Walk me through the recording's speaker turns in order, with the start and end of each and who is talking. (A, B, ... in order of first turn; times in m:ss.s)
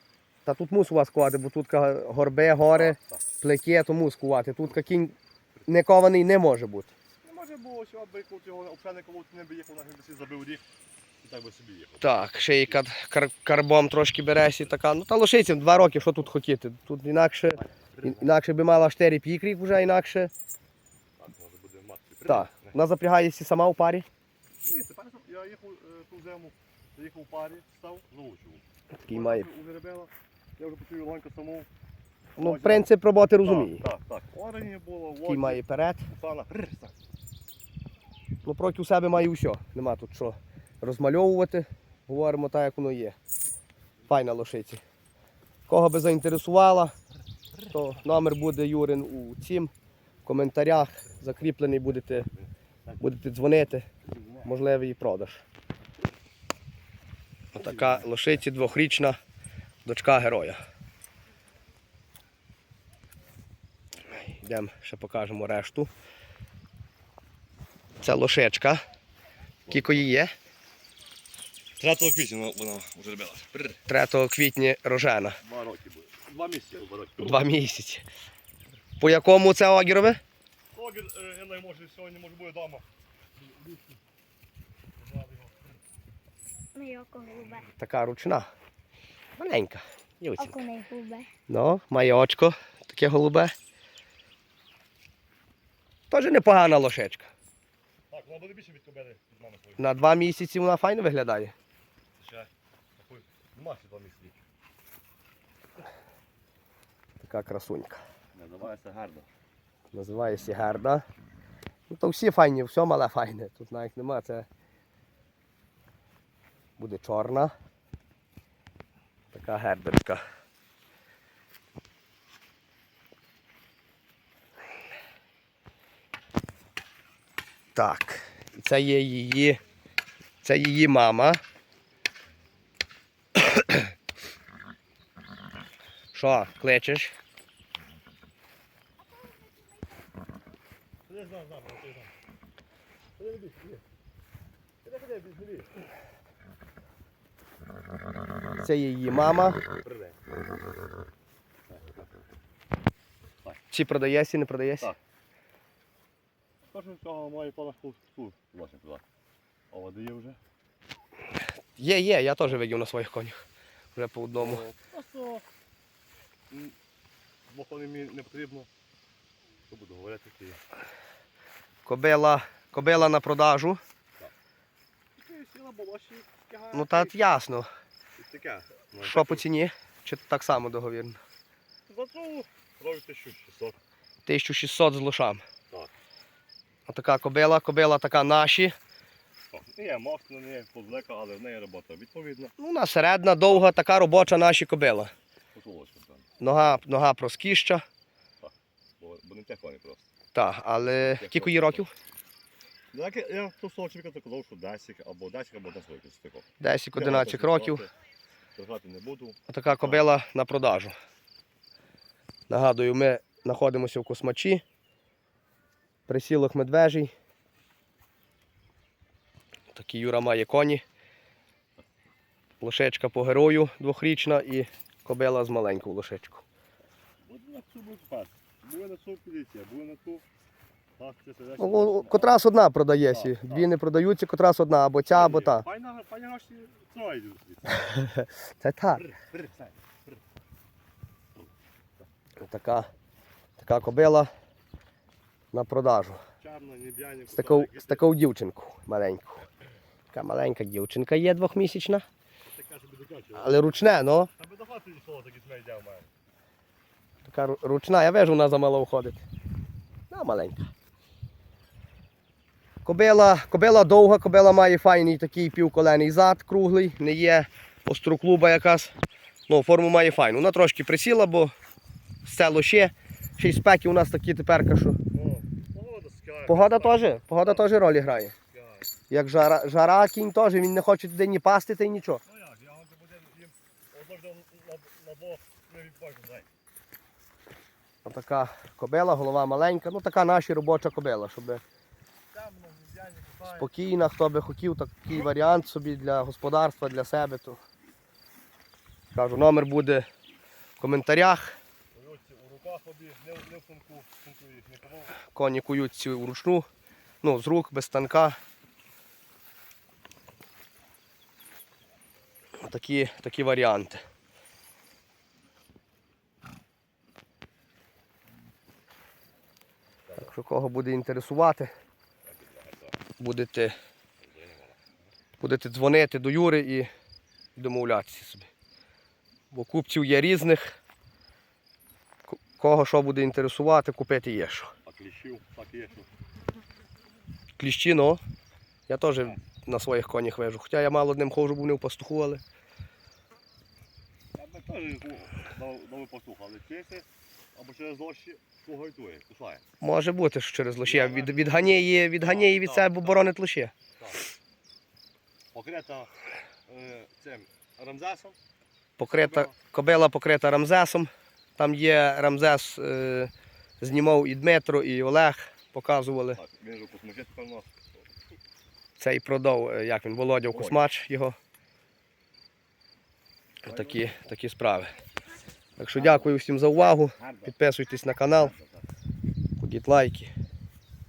0:00.5-0:05.2 A
0:02.7-0:03.2 B
0:05.7-0:06.9 A
0:07.2-0:10.6 B
0:11.2-0:12.8 B
0:12.0-0:20.3 A
0:17.6-0:18.3 B
0:21.2-0:22.8 B
0:22.3-0:24.1 A
0:24.6-0:31.7 B
0:28.9-0:29.5 A
0:32.4-0:33.8 A
0:32.4-0:37.0 B
0:35.2-0:36.1 A
0:38.4-0:43.2 A
0:44.1-0:44.8 A
0:45.7-0:46.9 A
0:47.7-0:49.7 A
0:50.2-0:52.3 A
0:52.3-0:53.1 B
0:53.0-0:53.9 A
0:54.0-0:54.5 B
0:54.4-0:55.4 A
0:57.5-0:58.2 B
0:57.6-0:59.2 A
0:59.8-1:00.6 A
1:04.1-1:05.9 A
1:08.0-1:08.8 A
1:09.7-1:10.1 B
1:09.7-1:10.3 A
1:11.8-1:13.8 B
1:13.9-1:15.4 A
1:15.4-1:17.5 B
1:17.2-1:18.0 A
1:19.0-1:20.2 A
1:20.7-1:22.9 B
1:25.0-1:25.6 B
1:26.7-1:27.7 C
1:27.8-1:28.5 A
1:29.4-1:30.6 A
1:30.4-1:31.3 C
1:31.5-1:33.5 A
1:36.1-1:37.3 A
1:38.1-1:39.9 B
1:39.8-1:41.5 A
1:42.2-1:44.4 B
1:47.2-1:48.0 A
1:48.3-1:49.3 B
1:49.9-1:51.0 A
1:51.9-1:54.4 A
1:56.8-1:57.5 A
1:59.3-2:00.2 A
2:07.8-2:09.6 A
2:10.4-2:11.4 A
2:16.1-2:17.1 A
2:21.1-2:22.1 B
2:23.2-2:23.8 B
2:24.8-2:25.8 B
2:28.6-2:29.6 A
2:29.7-2:30.2 B
2:31.7-2:32.0 B
2:33.7-2:34.9 A
2:36.7-2:39.0 B
2:39.7-2:40.4 B
2:41.8-2:43.4 A
2:44.0-2:44.6 A
2:44.4-2:45.4 B
2:46.5-2:46.8 B
2:47.5-2:48.7 B
2:49.7-2:50.6 B
2:51.9-2:53.8 A
2:55.2-2:57.3 B
2:56.7-2:57.7 A
2:58.2-2:59.5 B
2:59.0-3:01.2 A
3:01.9-3:03.8 B
3:04.3-3:05.4 A
3:06.9-3:08.8 A
3:09.5-3:12.6 B
3:12.6-3:15.1 A
3:15.5-3:16.3 B
3:16.4-3:17.8 A
3:18.4-3:20.1 B
3:20.3-3:21.9 A
3:20.8-3:21.9 B
3:22.9-3:26.4 B
3:26.6-3:27.8 A
3:27.0-3:27.9 B
3:28.6-3:30.0 B
3:29.5-3:30.9 A
3:32.5-3:34.6 A
3:36.1-3:37.1 A
3:39.7-3:40.8 A
3:42.6-3:46.4 A
3:47.2-3:50.2 B
3:51.0-3:52.4 B
3:51.6-3:55.6 A
3:53.1-3:53.7 B
3:55.1-3:57.9 B
3:57.8-3:59.0 A
3:58.9-4:00.2 B
4:02.4-4:02.9 A
4:03.6-4:04.3 A
4:05.5-4:06.2 A
4:06.4-4:08.1 B
4:07.3-4:09.4 A
4:10.1-4:12.1 A
4:12.5-4:16.1 B
4:13.4-4:14.3 A
4:17.2-4:19.2 A
4:20.1-4:20.7 A
4:22.8-4:28.9 A
4:29.5-4:31.5 A
4:32.2-4:35.0 A
4:35.1-4:37.7 B
4:36.5-4:38.3 A
4:38.5-4:38.9 B
4:39.1-4:42.2 A
4:42.3-4:46.5 B
4:48.0-4:51.6 A
4:52.3-4:53.7 B
4:53.5-4:57.6 A
4:59.1-5:00.0 A
5:00.8-5:01.6 A
5:01.9-5:05.2 B
5:05.3-5:06.6 A
5:07.2-5:08.4 A
5:12.6-5:14.0 A
5:20.2-5:21.7 A
5:22.3-5:23.0 B
5:23.2-5:23.8 A
5:24.2-5:25.0 B
5:25.4-5:26.9 A
5:27.6-5:28.5 A
5:29.5-5:30.8 A
5:32.3-5:34.7 A
5:34.8-5:36.1 B
5:37.6-5:38.2 A
5:38.9-5:42.4 A
5:44.3-5:49.6 B
5:49.8-5:53.7 A
5:50.8-5:53.3 B
5:54.0-5:54.3 B
5:55.5-5:56.1 B
5:56.7-5:58.4 B
5:59.0-6:06.4 A
5:59.0-5:59.5 B
6:06.4-6:08.0 B
6:09.0-6:11.4 A
6:10.5-6:10.9 B
6:13.6-6:14.9 A
6:13.7-6:14.1 B
6:15.8-6:18.6 A
6:15.9-6:16.3 B
6:17.2-6:17.5 B
6:18.3-6:18.8 B
6:19.6-6:20.3 A